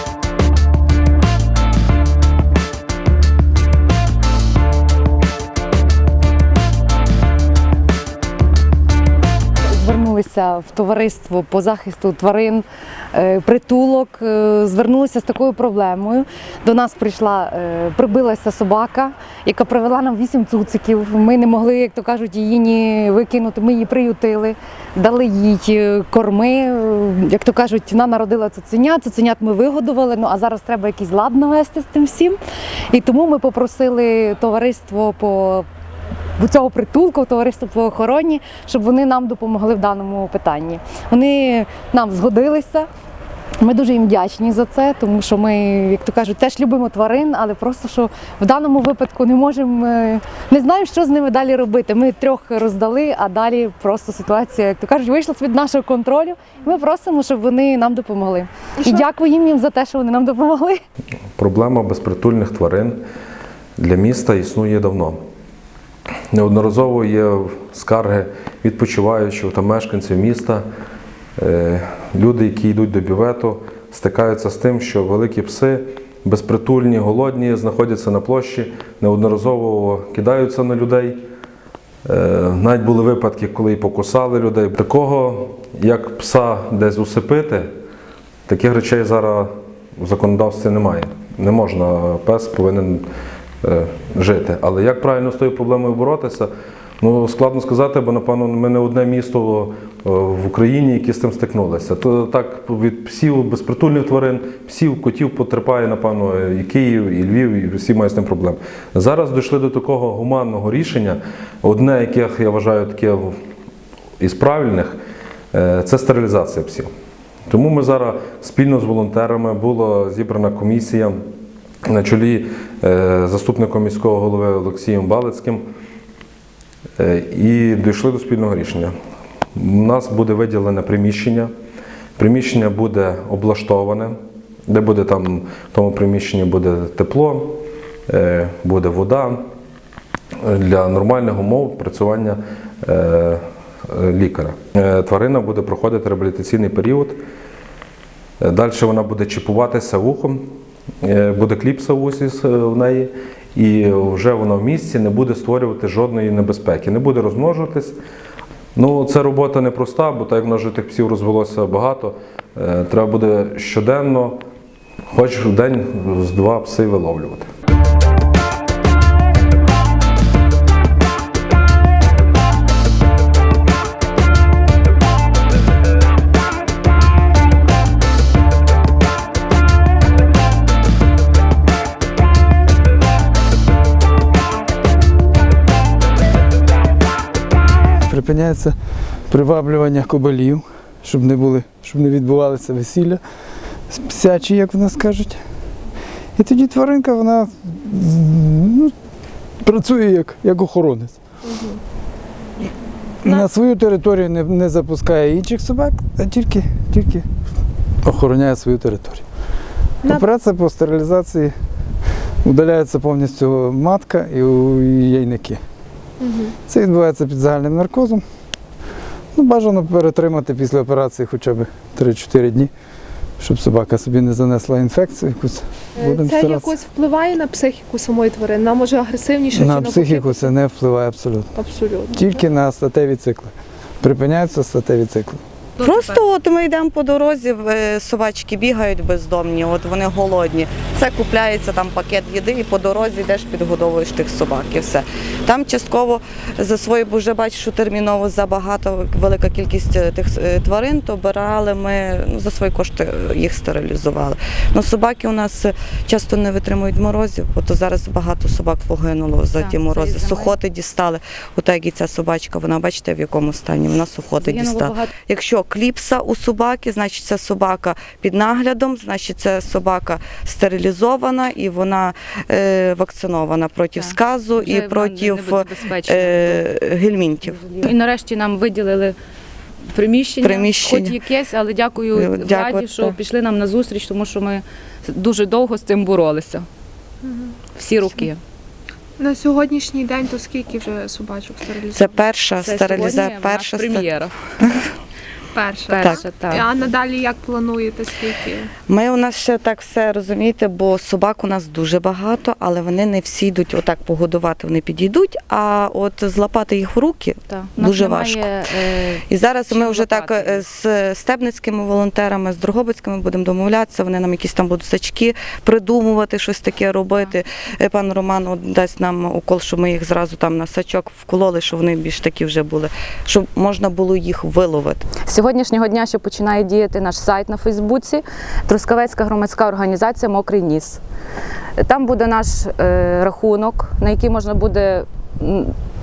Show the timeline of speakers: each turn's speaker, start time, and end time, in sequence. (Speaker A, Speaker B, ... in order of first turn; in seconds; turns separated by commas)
Speaker A: 9.7-32.4, Speaker A: 32.9-35.6, Speaker A: 36.4-42.9, Speaker A: 43.6-60.8, Speaker B: 61.4-63.0, Speaker B: 63.8-65.2, Speaker B: 66.3-70.6, Speaker B: 71.4-81.2, Speaker B: 82.0-87.7, Speaker B: 88.5-93.0, Speaker B: 93.6-96.5, Speaker B: 97.0-113.3, Speaker B: 114.2-115.0, Speaker B: 115.5-116.9, Speaker B: 117.5-121.2, Speaker B: 121.9-125.6, Speaker B: 127.0-128.9, Speaker B: 129.6-131.5, Speaker B: 132.2-134.2, Speaker B: 134.7-139.4, Speaker B: 140.4-147.2, Speaker B: 148.4-150.4, Speaker B: 151.0-158.0, Speaker B: 158.8-164.4, Speaker B: 165.1-167.5, Speaker C: 188.1-188.8, Speaker C: 189.3-193.2, Speaker C: 193.9-195.4, Speaker C: 196.4-198.9, Speaker C: 199.6-201.2, Speaker D: 201.4-201.8, Speaker C: 203.2-207.2, Speaker C: 208.0-209.2, Speaker D: 210.0-210.3, Speaker C: 210.0-211.5, Speaker C: 212.4-215.6, Speaker D: 216.2-216.5, Speaker C: 216.7-218.2, Speaker C: 219.3-222.7, Speaker C: 223.4-226.8, Speaker D: 226.0-230.5, Speaker C: 229.5-231.5, Speaker D: 231.5-232.3, Speaker C: 232.1-235.4, Speaker D: 235.8-236.2, Speaker E: 235.8-277.9, Speaker F: 259.6-260.5, Speaker F: 264.4-265.1, Speaker F: 274.0-276.6, Speaker F: 277.5-279.1, Speaker F: 279.9-286.7, Speaker E: 280.4-281.3, Speaker E: 282.1-283.2, Speaker D: 287.2-287.5, Speaker F: 287.7-288.4, Speaker D: 289.2-292.2, Speaker E: 291.9-294.8, Speaker F: 292.6-294.3, Speaker D: 295.5-298.7, Speaker F: 295.9-296.6, Speaker E: 295.9-296.3, Speaker E: 298.9-308.5, Speaker F: 307.5-310.6, Speaker E: 309.3-325.1, Speaker F: 325.2-331.0, Speaker F: 331.8-335.7